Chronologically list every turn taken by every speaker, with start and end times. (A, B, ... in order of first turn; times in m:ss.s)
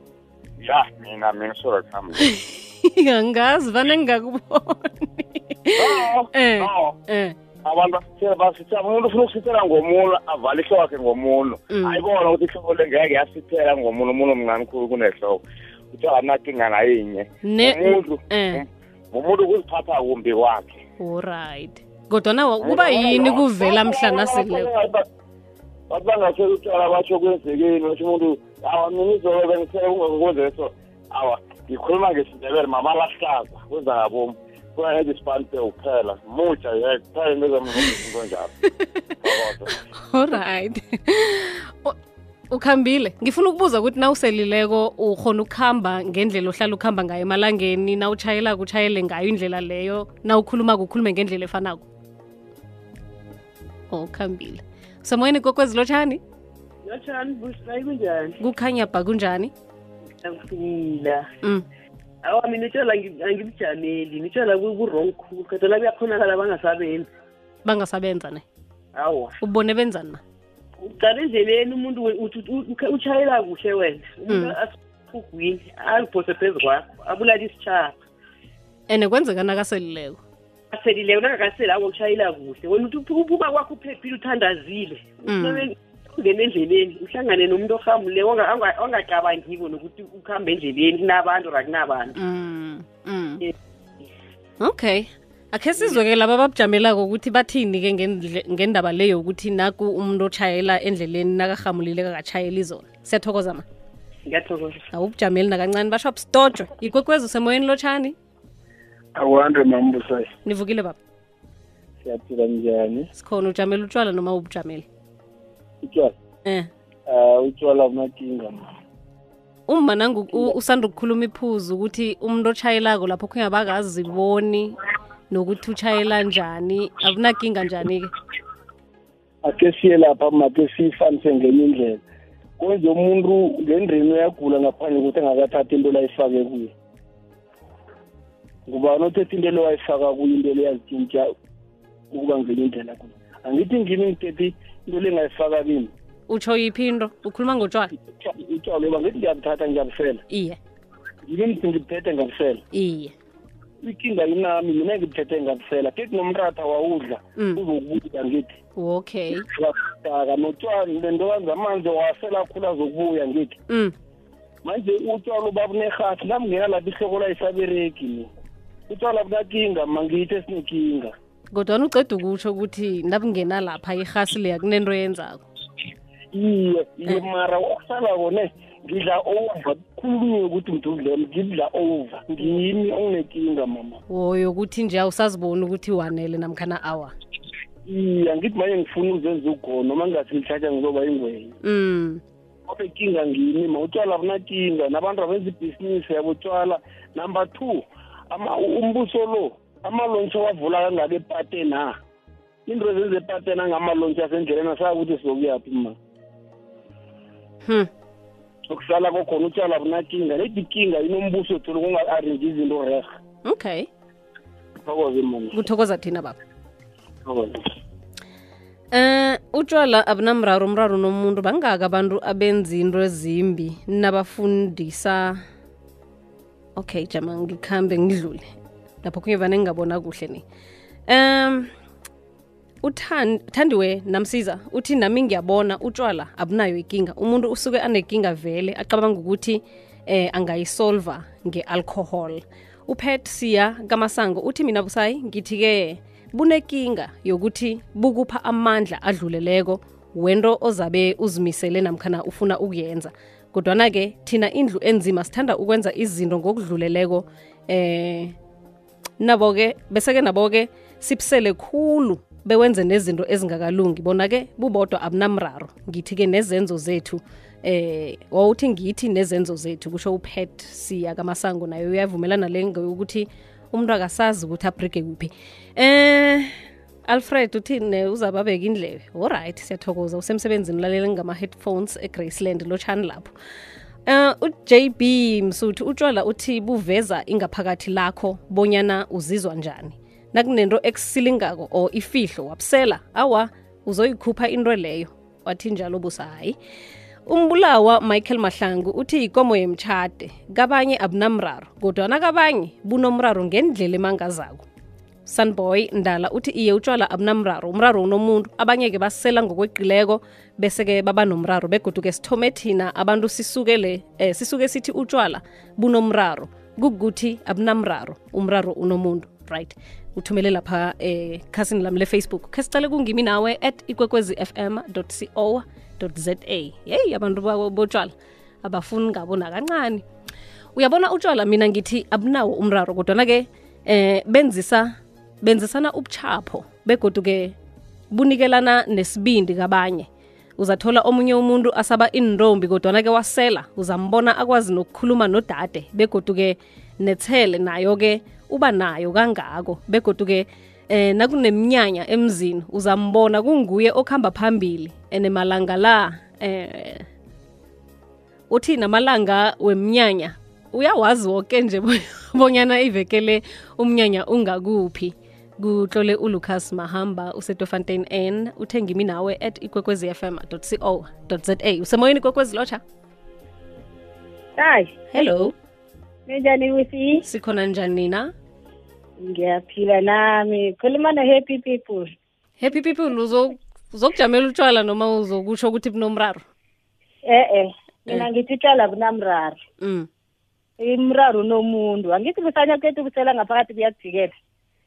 0:00.6-0:02.2 A
0:02.2-0:07.4 B
0:05.8-0:07.0 A
0:07.6-0:15.4 A
0:11.7-0:12.0 B
0:15.9-0:20.8 A
0:17.4-0:18.6 B
0:21.0-0:24.7 B
0:22.6-0:25.1 A
0:25.9-0:38.5 A
0:39.2-0:39.8 A
0:40.0-0:42.0 B
0:42.5-0:51.8 B
0:53.9-0:56.2 B
0:56.8-0:58.4 C
0:58.4-0:59.5 B
1:00.2-1:01.3 C
1:02.2-1:07.1 C
1:07.6-1:08.4 B
1:08.9-1:09.4 C
1:09.4-1:10.2 B
1:10.8-1:18.0 C
1:14.3-1:14.6 B
1:18.9-1:20.2 B
1:20.7-1:32.2 C
1:25.2-1:25.7 B
1:32.1-1:33.4 B
1:34.6-1:43.6 B
1:44.3-1:44.8 C
1:44.9-1:48.1 B
1:49.1-1:50.3 D
1:50.4-1:51.0 B
1:52.0-1:53.1 D
1:53.1-1:54.8 B
1:55.8-1:56.1 D
1:57.1-1:58.6 D
1:59.7-2:04.8 B
2:05.3-2:08.1 B
2:09.4-2:12.0 D
2:12.6-2:16.7 D
2:18.7-2:21.3 D
2:22.1-2:25.9 D
2:26.3-2:27.9 B
2:28.1-2:30.2 D
2:30.3-2:30.6 B
2:31.2-2:32.6 D
2:32.7-2:33.1 B
2:33.8-2:38.6 D
2:37.4-2:37.6 B
2:38.8-2:39.5 B
2:39.5-2:43.6 D
2:43.7-2:43.9 B
2:44.6-2:48.3 D
2:48.9-2:51.1 D
2:51.5-2:55.4 B
2:56.3-3:04.0 D
3:04.1-3:07.1 B
3:07.9-3:11.5 D
3:11.6-3:12.2 B
3:12.7-3:22.0 D
3:22.7-3:26.0 D
3:28.7-3:33.1 D
3:33.4-3:33.9 B
3:34.8-3:35.6 D
3:35.5-3:36.4 B
3:37.2-3:37.6 D
3:38.9-3:45.4 B
3:46.8-3:48.5 B
3:49.0-3:50.4 B
3:51.1-3:51.7 B
3:52.8-4:18.3 B
4:19.2-4:36.6 B
4:37.1-4:43.3 B
4:44.1-4:56.6 B
4:57.3-5:04.6 B
5:05.3-5:28.1 B
5:28.6-5:30.0 B
5:30.8-5:37.6 B
5:38.1-5:57.1 B
5:58.5-6:12.8 B
6:14.6-6:15.0 E
6:15.1-6:15.5 B
6:16.3-6:17.2 E
6:17.2-6:18.3 B
6:19.2-6:22.1 E
6:22.6-6:26.4 B
6:27.2-6:29.6 E
6:29.8-6:30.1 B
6:30.8-6:34.3 E